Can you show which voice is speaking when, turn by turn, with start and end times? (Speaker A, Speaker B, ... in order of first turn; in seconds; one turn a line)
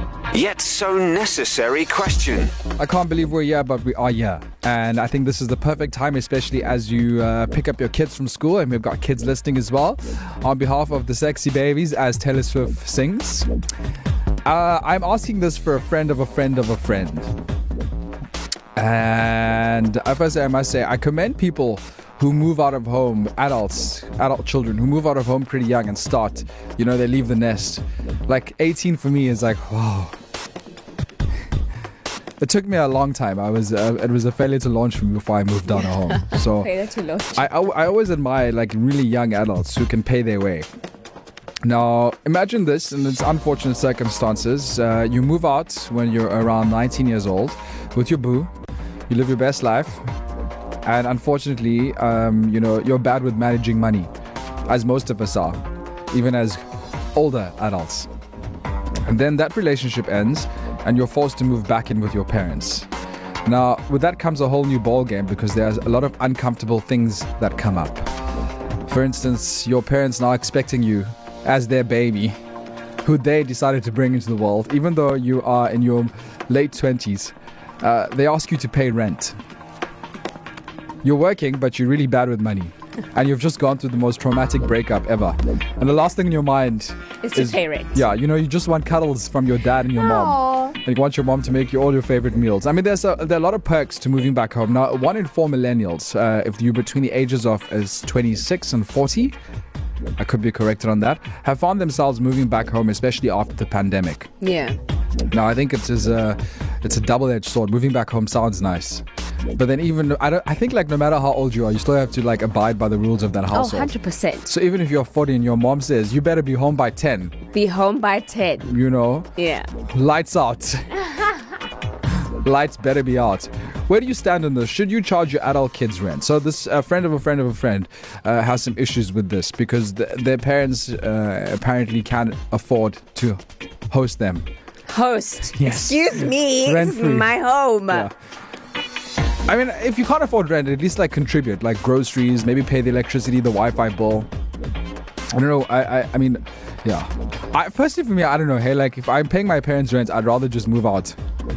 Speaker A: 0.3-2.5
Speaker B: 2.8-13.5
Speaker B: 14.4-17.3
Speaker B: 18.8-30.2
Speaker B: 32.4-36.7
Speaker C: 36.1-37.5
Speaker B: 37.4-40.7
Speaker B: 41.6-48.5
Speaker B: 49.1-50.0
Speaker B: 50.9-54.1
Speaker B: 54.7-56.6
Speaker B: 57.1-58.1
Speaker B: 59.0-62.9
Speaker B: 63.5-68.1
Speaker B: 68.9-72.4
Speaker B: 73.0-79.4
Speaker B: 81.0-99.4
Speaker C: 87.2-88.1
Speaker C: 89.9-90.8
Speaker B: 100.2-104.3
Speaker C: 104.4-104.8
Speaker B: 105.3-109.0
Speaker B: 109.6-113.9
Speaker C: 113.5-114.5
Speaker B: 114.5-117.4
Speaker C: 117.5-118.7
Speaker B: 118.7-119.3
Speaker C: 119.4-119.7
Speaker B: 119.8-121.0
Speaker B: 122.4-134.5
Speaker C: 134.9-138.1
Speaker B: 135.6-137.3
Speaker B: 139.5-144.3
Speaker B: 145.3-151.2